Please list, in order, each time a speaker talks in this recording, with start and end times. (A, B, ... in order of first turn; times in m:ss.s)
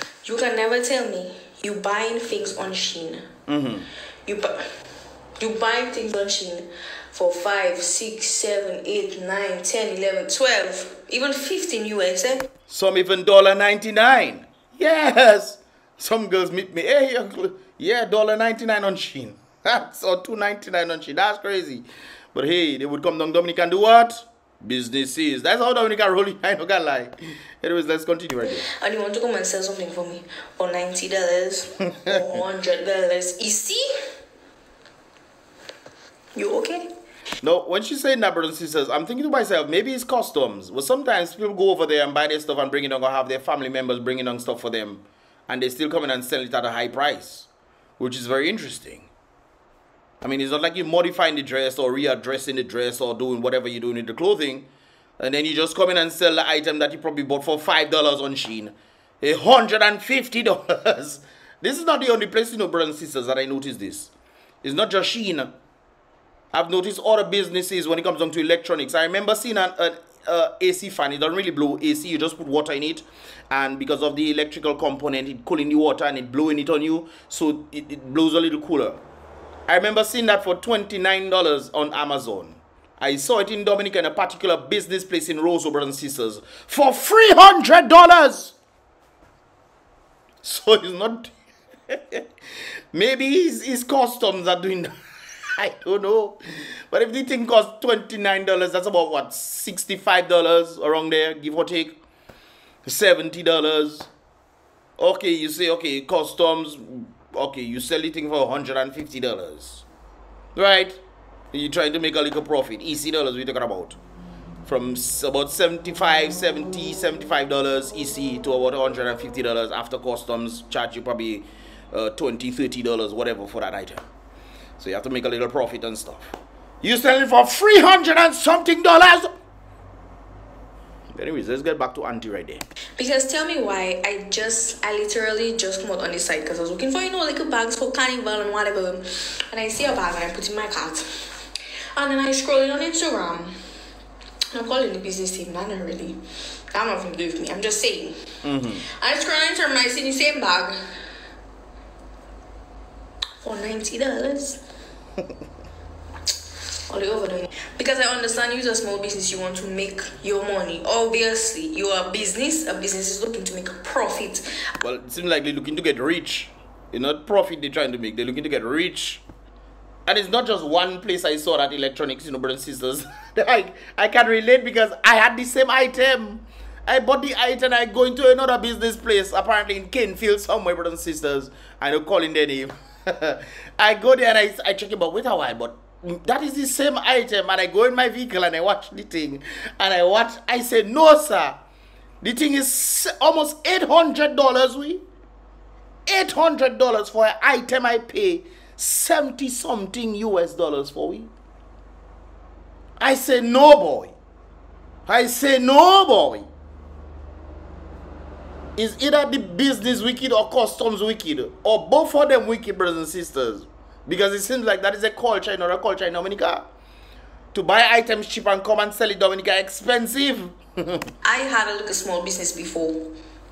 0:00.2-0:03.3 A
0:03.5-0:03.9 B
0:04.2-0:04.7 A
0:05.4-0:12.5 A
0:12.7-0:28.6 B
0:28.6-0:33.8 A
0:36.3-0:36.9 A
0:37.4-0:47.5 B
0:48.0-0:49.1 B
0:50.2-0:54.7 B
0:55.2-1:04.1 B
1:04.6-1:05.5 B
1:06.5-1:19.0 B
1:19.7-1:28.5 B
1:30.4-1:31.3 B
1:31.9-1:32.2 B
1:32.9-1:34.9 B
1:35.6-1:42.0 B
1:42.8-1:44.1 B
1:45.0-1:49.8 B
1:50.5-1:51.0 B
1:51.5-1:54.0 B
1:54.6-2:04.0 B
2:04.8-2:09.3 B
2:11.1-2:12.6 B
2:13.0-2:21.0 A
2:22.0-2:23.5 A
2:24.5-2:26.2 A
2:26.7-2:28.2 A
2:28.4-2:28.8 B
2:28.8-2:30.8 A
2:33.4-2:34.6 A
2:36.9-2:44.4 A
2:44.8-2:49.2 B
2:50.0-3:11.6 B
3:12.2-3:15.0 B
3:16.1-3:21.3 B
3:23.0-3:24.1 B
3:25.1-3:26.5 B
3:28.8-3:36.7 B
3:37.5-3:41.0 B
3:41.2-3:43.1 A